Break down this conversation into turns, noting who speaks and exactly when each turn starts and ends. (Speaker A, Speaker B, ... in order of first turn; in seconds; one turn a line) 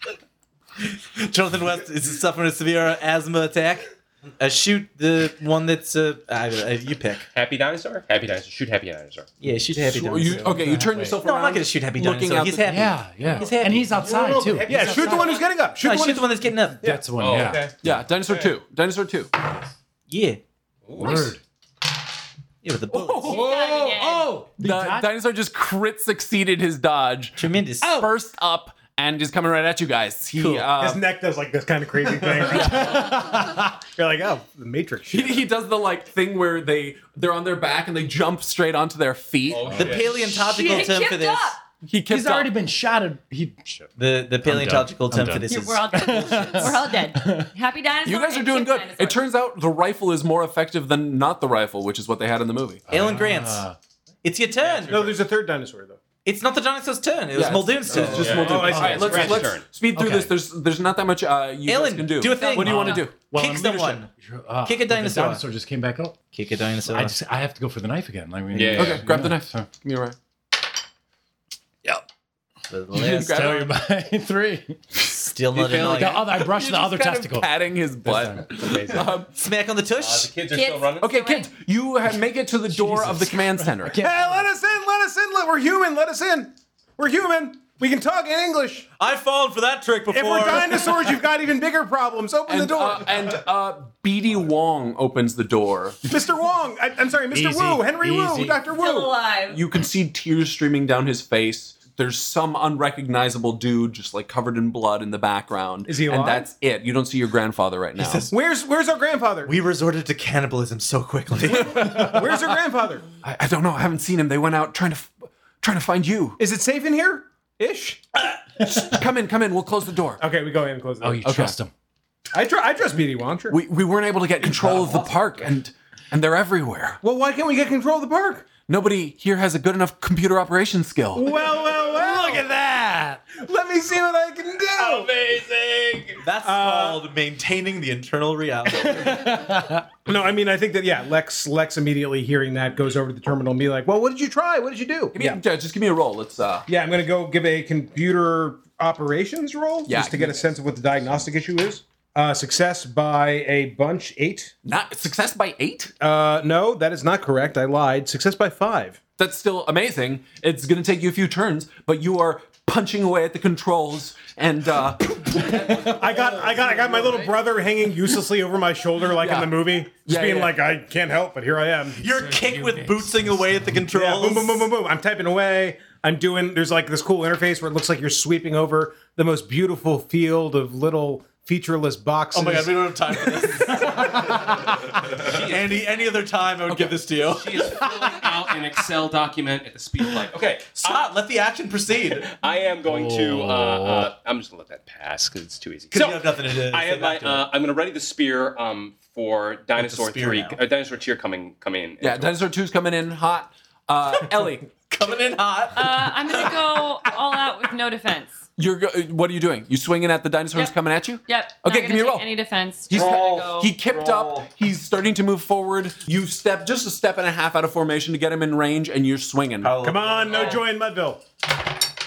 Speaker A: 0.8-3.9
Speaker A: 4.4-7.3
Speaker B: 7.3-9.3
Speaker A: 9.4-17.0
Speaker C: 9.7-13.0
Speaker D: 10.3-11.2
Speaker D: 12.6-15.4
Speaker E: 14.2-17.6
Speaker B: 15.1-15.4
Speaker D: 16.8-17.9
Speaker B: 17.1-17.8
Speaker C: 17.8-19.3
Speaker A: 20.1-20.4
Speaker B: 20.9-21.4
Speaker D: 21.0-21.4
Speaker A: 22.6-23.4
Speaker C: 22.9-23.5
Speaker F: 23.2-24.4
Speaker E: 23.4-24.3
Speaker D: 24.1-25.1
Speaker C: 24.6-31.0
Speaker A: 27.4-28.1
Speaker E: 30.4-35.5
Speaker D: 32.4-33.7
Speaker C: 32.5-33.0
Speaker C: 35.1-40.0
Speaker B: 39.5-40.2
Speaker D: 39.7-40.0
Speaker A: 39.7-41.5
Speaker F: 40.2-41.6
Speaker C: 41.9-42.5
Speaker D: 42.1-43.9
Speaker A: 44.0-46.5
Speaker D: 44.4-47.5
Speaker F: 45.5-49.2
Speaker C: 48.0-52.8
Speaker D: 52.9-53.8
Speaker A: 52.9-53.6
Speaker A: 54.2-55.1
Speaker B: 54.6-55.1
Speaker E: 54.8-56.0
Speaker A: 56.2-59.2
Speaker C: 57.3-63.1
Speaker B: 57.8-59.7
Speaker E: 58.2-59.5
Speaker D: 58.9-59.3
Speaker D: 59.9-60.3
Speaker A: 61.6-64.1
Speaker F: 62.3-63.1
Speaker D: 62.6-66.2
Speaker A: 64.6-65.4
Speaker A: 66.3-67.2
Speaker D: 66.8-69.7
Speaker B: 68.5-69.3
Speaker C: 68.7-70.2
Speaker A: 72.7-73.7
Speaker C: 72.9-73.7
Speaker D: 73.0-74.8
Speaker A: 75.1-76.3
Speaker C: 75.5-79.3
Speaker D: 75.7-77.5
Speaker D: 78.0-78.6
Speaker B: 78.4-79.2
Speaker A: 79.4-80.3
Speaker B: 79.9-81.2
Speaker F: 80.5-81.5
Speaker C: 81.0-84.0
Speaker D: 82.7-84.4
Speaker E: 83.9-88.9
Speaker A: 89.0-91.2
Speaker E: 90.1-93.3
Speaker C: 92.5-96.0
Speaker E: 96.1-99.1
Speaker D: 97.3-98.6
Speaker F: 98.7-99.6
Speaker C: 99.5-108.3
Speaker E: 105.8-106.5
Speaker A: 108.0-108.3
Speaker E: 108.3-109.5
Speaker A: 109.4-112.2
Speaker C: 111.5-112.2
Speaker E: 111.7-113.0
Speaker C: 113.2-116.4
Speaker E: 116.4-118.7
Speaker C: 118.8-120.2
Speaker E: 120.2-121.2
Speaker D: 121.0-121.7
Speaker C: 121.2-121.6
Speaker E: 122.3-123.6
Speaker C: 123.5-127.0
Speaker A: 124.6-125.2
Speaker E: 127.0-128.5
Speaker C: 128.7-131.3
Speaker E: 131.1-132.5
Speaker D: 131.5-133.2
Speaker E: 133.3-135.1
Speaker B: 134.8-136.2
Speaker A: 136.2-139.3
Speaker E: 136.4-137.0
Speaker D: 139.1-139.8
Speaker E: 140.1-145.4
Speaker C: 145.1-146.7
Speaker E: 146.7-154.5
Speaker C: 149.8-150.4
Speaker C: 154.6-155.9
Speaker E: 156.0-159.0
Speaker C: 159.2-167.3
Speaker D: 165.3-165.8
Speaker E: 165.8-172.8
Speaker C: 169.2-170.6
Speaker A: 171.9-174.7
Speaker E: 173.9-184.1
Speaker A: 182.3-187.8
Speaker D: 183.8-184.3
Speaker B: 185.2-186.0
Speaker C: 186.7-187.0
Speaker B: 187.2-191.1
Speaker A: 190.8-192.3
Speaker B: 192.1-202.4
Speaker D: 192.8-194.1
Speaker A: 195.9-197.5
Speaker A: 199.8-200.6
Speaker C: 202.0-205.0
Speaker A: 204.9-206.2
Speaker F: 205.7-208.4
Speaker C: 208.6-212.2
Speaker F: 211.2-213.7
Speaker C: 212.9-219.8
Speaker B: 212.9-214.5
Speaker A: 219.6-220.6
Speaker E: 219.8-221.2
Speaker F: 220.2-220.6